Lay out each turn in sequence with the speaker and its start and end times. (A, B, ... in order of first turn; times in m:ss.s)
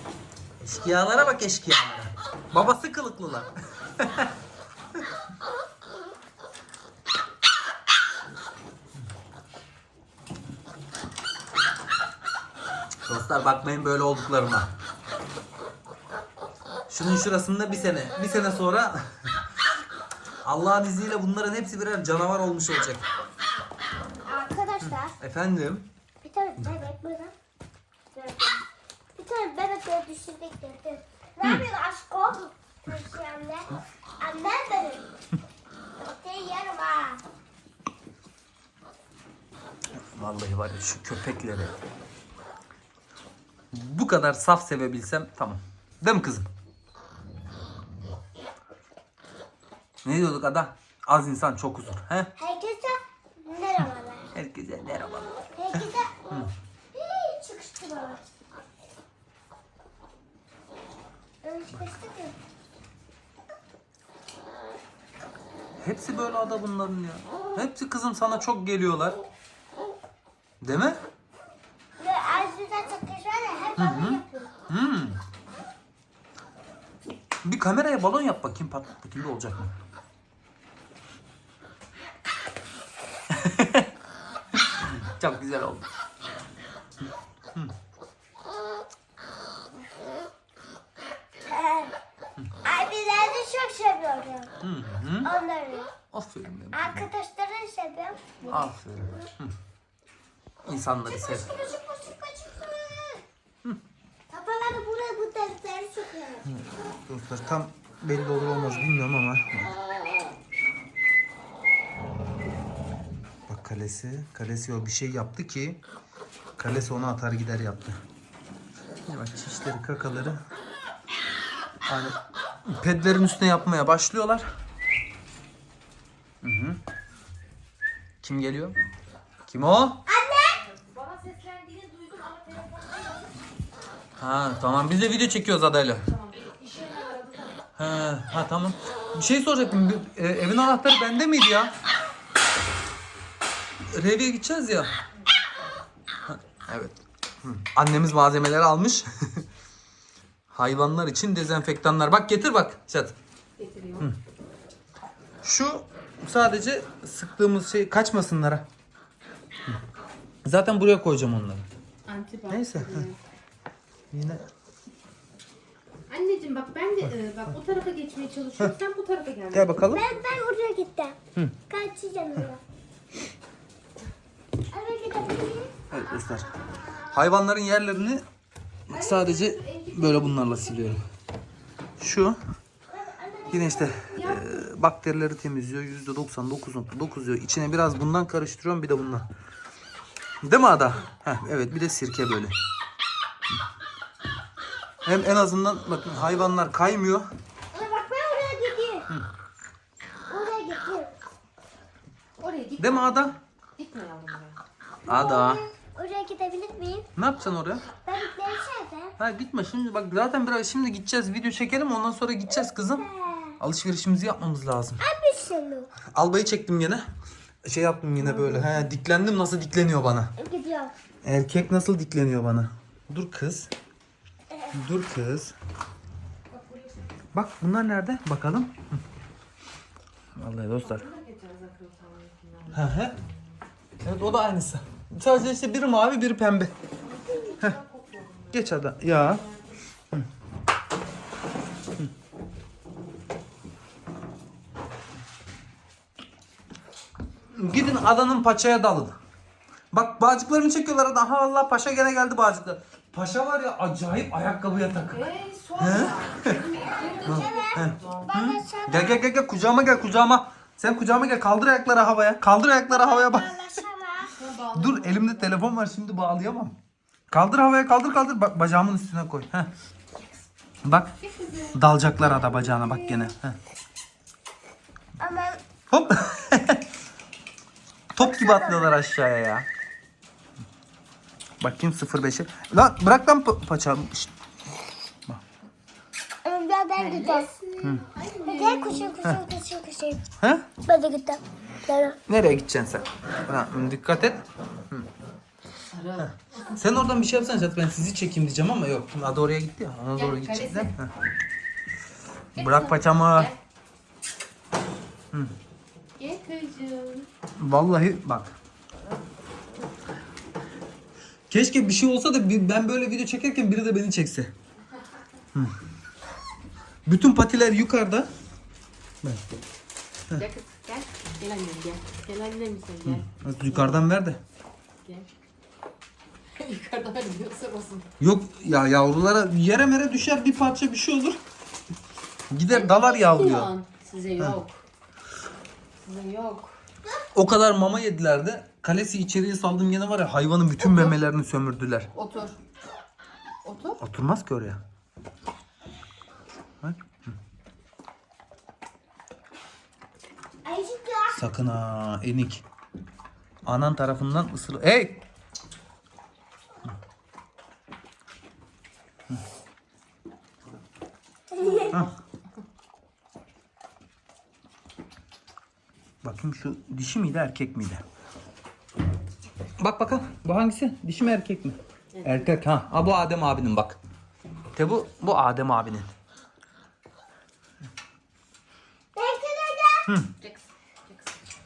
0:00.6-0:04.3 A
0:13.1-0:14.7 A
0:16.9-0:19.1 A
0:20.4-0:23.0 A
0:24.2-0:25.1 B
0:25.2-0:25.9 A
0:26.2-0:27.3 B
0:28.1-0:28.6 B
0:29.2-0:33.7 B
0:34.2-0:35.0 B
0:36.2-0:37.2 B
0:40.1-0:41.8 A
0:43.7-0:46.5 A
0:50.0-0:52.3 A
0:52.4-0:54.3 B
0:54.3-0:55.3 A
0:55.6-0:56.2 B
0:56.9-0:58.2 B
1:01.4-1:02.4 B
1:05.8-1:09.2 A
1:10.6-1:11.0 A
1:12.0-1:14.5 B
1:13.8-1:15.2 A
1:17.4-1:19.7 A
1:23.3-1:23.9 A
1:24.8-1:25.8 A
1:31.4-1:31.9 B
1:32.6-1:34.5 B
1:34.6-1:35.3 A
1:35.2-1:35.9 B
1:36.1-1:37.1 A
1:36.7-1:38.7 B
1:38.5-1:39.5 A
1:40.6-1:41.5 A
1:41.1-1:43.2 B
1:44.3-1:46.5 B
1:46.5-1:49.7 A
1:53.5-1:55.8 A
1:56.6-1:58.0 A
1:59.1-2:00.4 A
2:01.9-2:04.5 A
2:06.4-2:06.8 A
2:08.2-2:08.8 A
2:09.5-2:10.0 A
2:10.0-2:10.6 B
2:10.6-2:13.3 C
2:14.2-2:16.1 A
2:16.0-2:17.6 C
2:17.8-2:21.7 A
2:23.9-2:24.9 A
2:26.3-2:29.4 A
2:30.5-2:33.2 A
2:33.6-2:34.1 C
2:35.4-2:38.6 A
2:40.4-2:41.6 A
2:42.1-2:43.2 C
2:42.5-2:43.0 A
2:44.1-2:44.4 A
2:46.1-2:49.8 C
2:49.5-2:50.1 A
2:49.9-2:52.6 B
2:54.7-2:55.8 B
2:55.9-2:56.5 A
2:57.1-2:58.2 A
2:58.9-3:01.0 A
2:58.9-3:01.0 C
3:02.0-3:02.4 A
3:02.9-3:04.2 B
3:03.5-3:09.3 A
3:04.2-3:04.5 C
3:10.4-3:12.5 A
3:15.0-3:17.3 A
3:17.7-3:19.0 B
3:20.3-3:21.1 B
3:22.4-3:24.6 C
3:22.8-3:23.3 A
3:25.0-3:25.6 A
3:25.0-3:27.1 B
3:27.2-3:27.8 A
3:28.0-3:29.2 B
3:29.2-3:33.0 A
3:32.9-3:33.6 B
3:33.6-3:35.0 A
3:35.0-3:35.9 B
3:36.1-3:37.0 A
3:37.6-3:40.3 A
3:38.2-3:38.9 C
3:40.4-3:40.9 B
3:41.2-3:43.7 A
3:44.5-3:44.8 B
3:44.7-3:45.5 A
3:46.5-3:47.1 C
3:47.3-3:49.0 A
3:50.4-3:51.0 A
3:50.8-3:53.5 C
3:52.7-3:53.2 A
3:54.0-3:56.7 A
3:57.0-3:59.8 C
3:58.5-3:59.4 A
4:07.5-4:09.2 A
4:09.9-4:15.2 A
4:15.0-4:18.3 C
4:15.8-4:16.6 A
4:17.2-4:19.2 B
4:17.2-4:23.8 A
4:22.8-4:24.3 B
4:24.3-4:25.6 C
4:24.7-4:26.8 A
4:27.3-4:29.7 A
4:30.8-4:31.1 A
4:31.2-4:32.3 C
4:31.7-4:33.6 A
4:32.4-4:33.3 B
4:35.2-4:35.6 B
4:35.9-4:36.8 A
4:38.1-4:39.6 A
4:38.2-4:38.9 B
4:41.6-4:44.3 A
4:46.4-4:47.5 B
4:47.0-4:49.2 C
4:48.5-4:50.2 B
4:50.4-4:50.7 A
4:50.8-4:52.2 B
4:52.3-4:55.1 A
4:55.8-4:56.3 C
4:56.2-5:01.1 A
5:00.2-5:00.9 C
5:02.6-5:03.5 A
5:02.6-5:03.6 C
5:06.2-5:07.3 C
5:07.6-5:08.5 A
5:11.5-5:14.5 A
5:17.0-5:18.3 A
5:20.4-5:24.0 C
5:23.0-5:24.4 A
5:26.6-5:28.1 C
5:28.2-5:31.4 A
5:32.5-5:33.7 A
5:32.7-5:34.8 C
5:36.0-5:36.8 C
5:37.3-5:42.1 A
5:40.8-5:41.1 C
5:42.1-5:42.6 C
5:43.6-5:44.0 C
5:44.0-5:44.8 A
5:46.8-5:47.3 A
5:50.6-5:51.4 B
5:51.3-5:52.6 A
5:53.6-5:55.2 A
6:01.5-6:02.0 B
6:01.6-6:02.1 C
6:06.2-6:08.0 A
6:09.8-6:14.0 A
6:12.1-6:12.5 C
6:14.7-6:16.1 A
6:19.1-6:20.1 B
6:20.4-6:21.4 C